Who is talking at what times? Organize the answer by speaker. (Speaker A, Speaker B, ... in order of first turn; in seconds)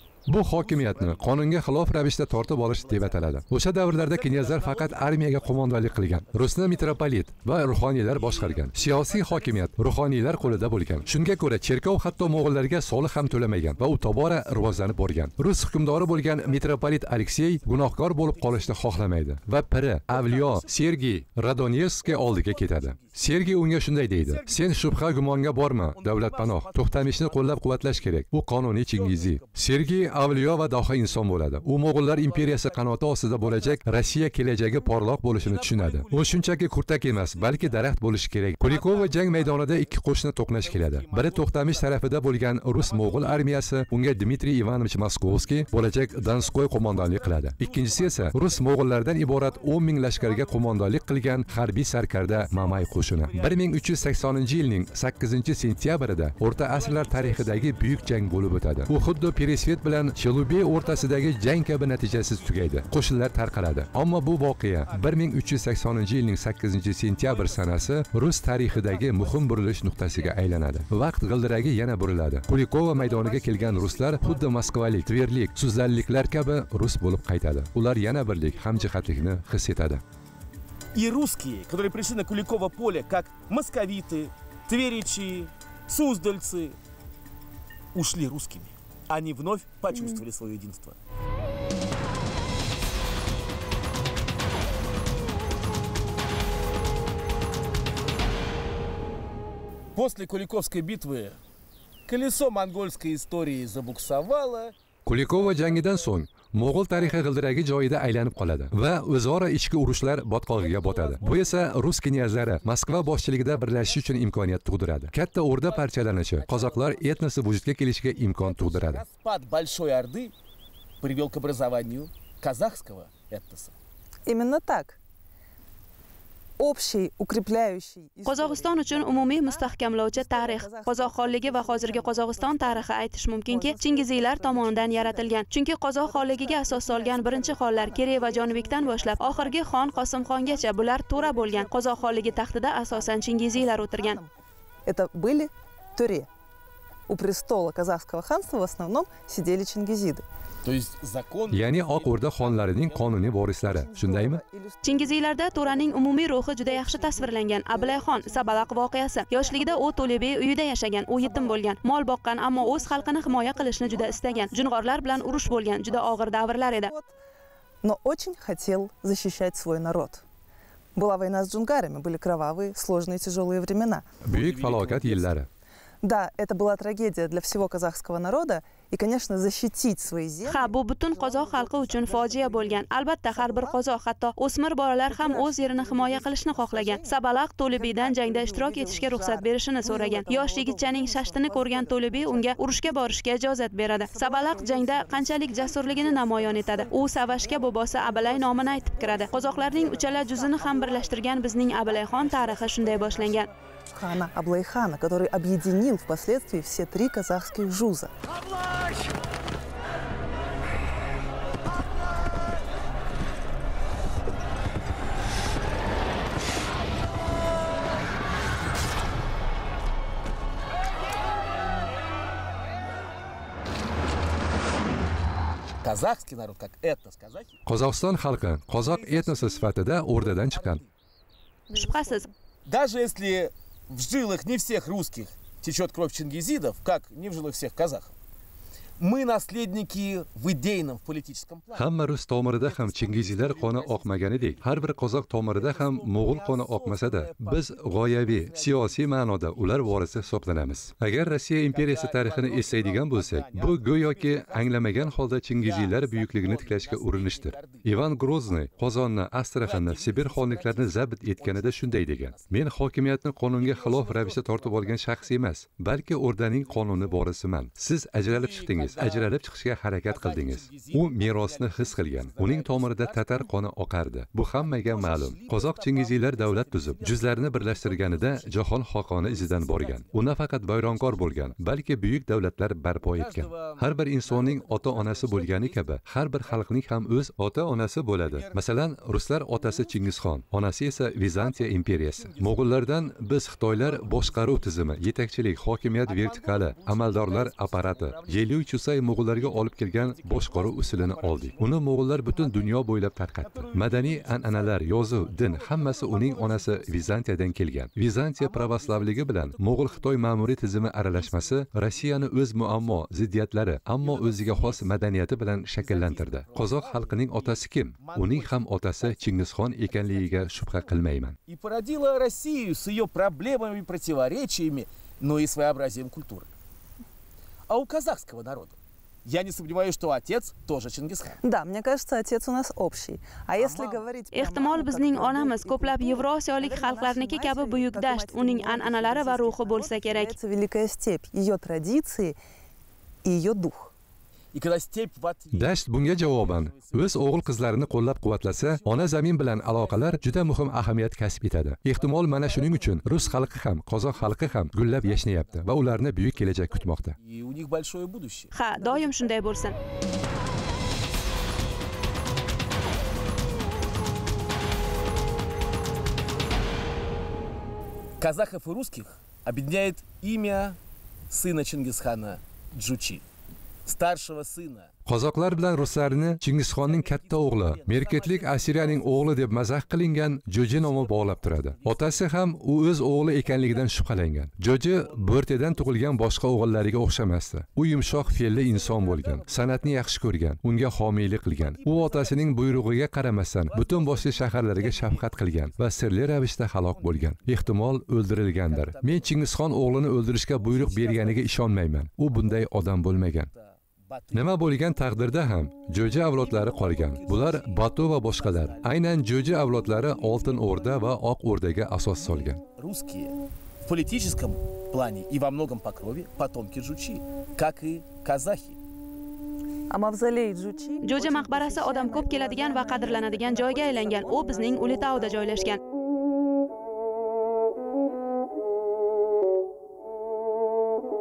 Speaker A: 0.3-80.0, 105.0-119.0, 151.5-154.4, 174.2-175.5, 227.7-230.8, 241.7-321.4, 345.5-357.1, 375.0-403.5, 404.3-412.6
Speaker B: 0.5-1.5, 2.2-7.0, 8.0-15.1, 15.7-17.0, 17.6-19.1, 20.1-21.0, 22.0-25.1, 25.9-28.2, 28.9-31.1, 31.6-34.3, 35.4-37.9, 38.6-40.0, 40.5-43.6, 45.2-51.6, 52.2-55.1, 56.6-58.5, 60.6-62.9, 64.8-65.2, 67.2-67.9, 68.5-70.8, 72.8-75.1, 78.0-79.3, 80.9-86.8, 87.9-91.0, 99.9-101.4, 102.0-104.7, 105.3-106.2, 110.5-114.5, 115.5-117.5, 118.3-120.3, 121.0-123.7, 150.6-153.5, 174.2-175.4, 225.8-227.6, 228.8-230.9, 232.7-238.1, 239.0-241.9, 242.5-244.8, 245.5-250.6, 251.7-259.0, 259.6-262.6, 263.5-265.3, 266.5-267.3, 268.2-269.4, 270.0-273.5, 274.5-281.7, 283.1-286.8, 288.2-288.6, 289.5-290.1, 291.3-292.8, 293.6-294.9, 296.0-298.6, 299.3-307.5, 308.4-313.1, 313.9-315.1, 315.7-326.5, 327.7-331.4, 333.6-334.0, 344.5-350.9, 351.9-359.4, 368.2-370.8, 371.3-373.2, 373.8-374.9, 375.5-379.5, 380.6-382.3, 383.4-384.0, 384.9-386.4, 388.0-390.1, 391.5-392.9, 393.6-396.1, 396.9-397.8, 398.6-399.4, 400.5-401.6, 402.3-402.7, 403.5-405.1, 406.1-411.1, 412.4-418.8, 422.0-424.8
Speaker C: 89.9-90.2, 124.2-125.0, 126.6-135.4, 136.0-144.3, 144.8-146.3, 147.1-150.2, 153.6-160.4, 161.1-161.7, 162.5-167.1, 167.8-170.2, 170.9-174.1, 176.0-183.8, 185.1-193.1, 194.0-208.1, 231.7-232.3, 331.4-342.4, 343.2-343.9, 419.9-425.6
Speaker D: 128.2-144.2, 154.8-166.9, 180.4-203.5, 231.7-232.3, 334.3-340.3, 358.5-359.8, 421.0-425.8